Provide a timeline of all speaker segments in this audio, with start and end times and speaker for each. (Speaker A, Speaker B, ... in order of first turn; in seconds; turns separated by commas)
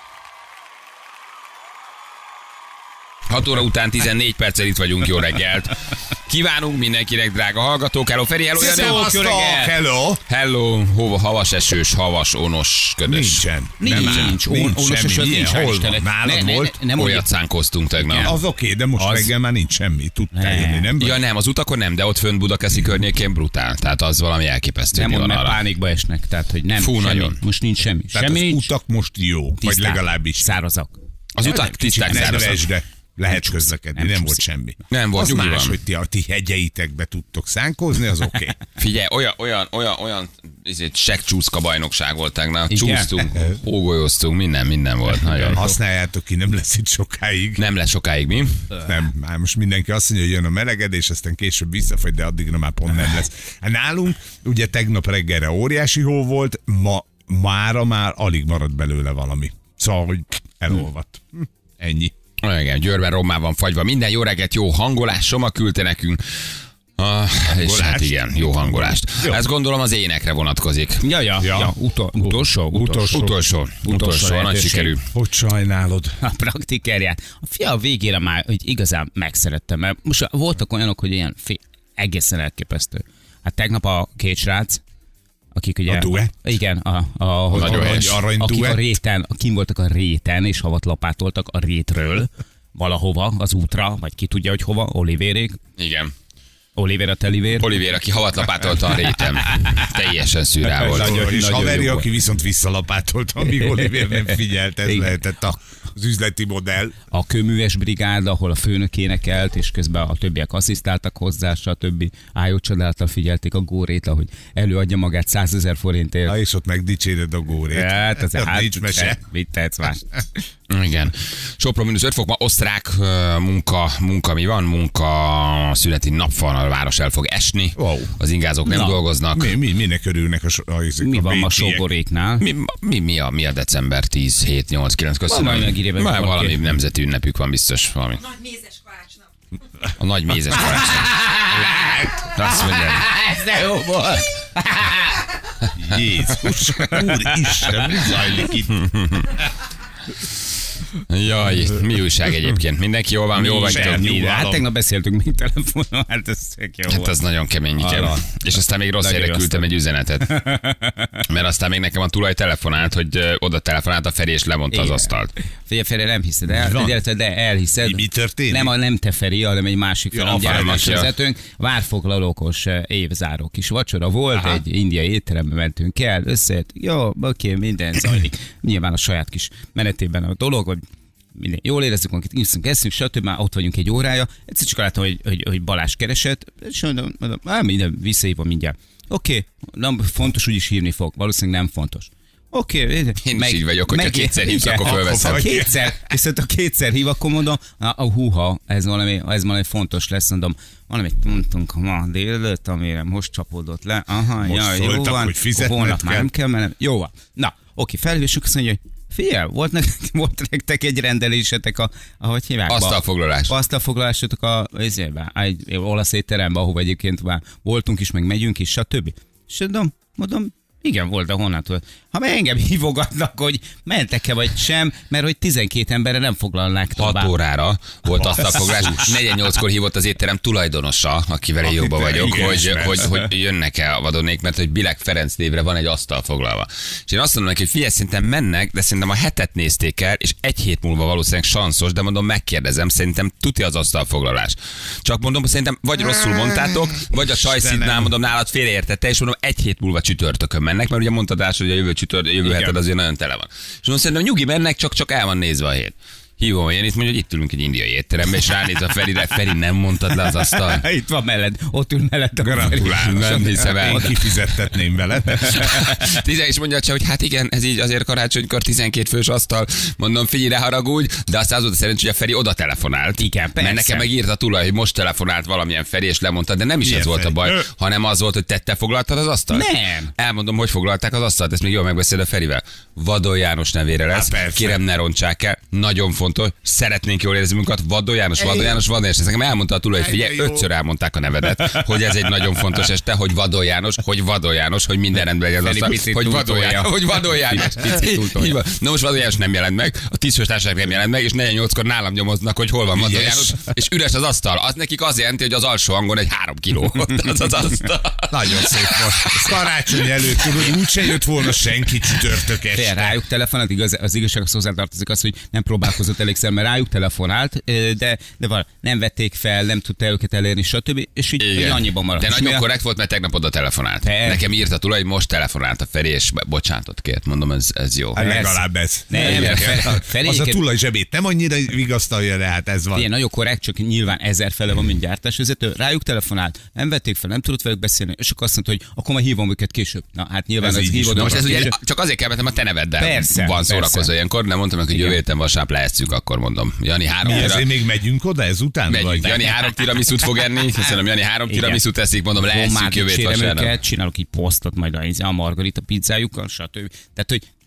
Speaker A: 3.3-9.1, Speaker B: 8.6-10.2, Speaker C: 8.6-9.7, Speaker A: 10.3-14.3, Speaker B: 13.0-16.8, Speaker C: 13.8-17.2, Speaker A: 16.9-18.4, Speaker C: 18.0-18.4, Speaker B: 18.2-21.2, Speaker C: 18.9-19.3, Speaker C: 20.3-20.9, Speaker A: 21.0-25.6, Speaker C: 24.9-28.7, Speaker A: 26.8-27.4, Speaker B: 28.1-30.5, Speaker C: 29.6-32.5, Speaker A: 31.4-32.6, Speaker B: 31.4-38.5, Speaker C: 33.3-34.4, Speaker A: 34.9-35.8, Speaker A: 38.8-45.7, Speaker C: 42.7-43.4, Speaker C: 45.1-45.7, Speaker B: 45.5-47.6, Speaker A: 47.6-48.7, Speaker B: 48.8-62.1, Speaker A: 62.4-71.1, Speaker B: 67.6-69.4, Speaker C: 71.0-73.3, Speaker B: 71.4-71.7, Speaker B: 72.2-73.3, Speaker A: 73.1-75.1, Speaker C: 73.8-74.9, Speaker B: 75.1-76.2, Speaker C: 76.2-84.8, Speaker C: 85.5-95.6, Speaker B: 85.9-86.5, Speaker A: 87.5-88.2, Speaker B: 87.5-88.9, Speaker A: 95.8-96.1, Speaker C: 96.8-97.7, Speaker A: 97.6-101.2, Speaker C: 99.3-99.9, Speaker C: 100.7-102.1, Speaker B: 100.8-107.0, Speaker C: 103.6-105.1, Speaker C: 107.1-116.3, Speaker B: 116.2-119.2, Speaker C: 117.7-120.2, Speaker A: 120.7-129.6, Speaker B: 127.8-128.1, Speaker C: 128.7-129.0, Speaker B: 129.3-131.9, Speaker C: 131.0-132.4, Speaker A: 132.4-138.6, Speaker C: 135.3-136.6, Speaker A: 140.0-141.2, Speaker C: 141.1-145.2, Speaker A: 142.3-143.1, Speaker B: 145.8-148.8, Speaker C: 146.8-147.8, Speaker A: 148.7-149.4, Speaker A: 151.1-154.1, Speaker C: 153.3-157.1, Speaker B: 153.6-154.7, Speaker A: 156.9-160.4, Speaker C: 157.8-158.3, Speaker C: 159.0-159.7, Speaker C: 160.2-161.2, Speaker A: 161.3-165.3, Speaker C: 164.7-165.1, Speaker C: 165.6-180.8, Speaker B: 166.5-167.0, Speaker B: 167.8-168.7, Speaker B: 170.1-171.0, Speaker A: 170.4-171.1, Speaker C: 181.3-227.3, Speaker A: 193.2-195.5, Speaker B: 194.8-196.1, Speaker B: 204.4-206.3, Speaker A: 212.7-213.5, Speaker A: 227.0-260.8, Speaker B: 228.2-229.1, Speaker B: 231.7-233.1, Speaker C: 232.3-232.6, Speaker B: 246.0-248.1, Speaker B: 252.4-252.8, Speaker C: 260.2-264.3, Speaker B: 262.4-265.8, Speaker A: 262.7-264.1, Speaker C: 265.4-266.0, Speaker A: 265.5-309.6, Speaker C: 273.2-274.1, Speaker B: 276.8-277.7, Speaker C: 279.5-280.1, Speaker B: 284.1-284.8, Speaker B: 288.4-288.8, Speaker B: 290.0-290.7, Speaker C: 295.6-298.6, Speaker B: 302.9-303.6, Speaker B: 308.3-313.1, Speaker A: 310.4-310.7, Speaker C: 312.7-322.6, Speaker A: 321.4-328.2, Speaker C: 324.0-324.4, Speaker B: 328.1-333.1, Speaker C: 328.2-330.6, Speaker A: 329.1-329.8, Speaker C: 332.9-341.8, Speaker B: 340.6-341.7, Speaker A: 341.1-347.7, Speaker C: 343.0-344.1, Speaker C: 344.9-345.2, Speaker B: 347.2-349.5, Speaker A: 348.9-353.7, Speaker C: 351.5-351.8, Speaker C: 352.4-357.4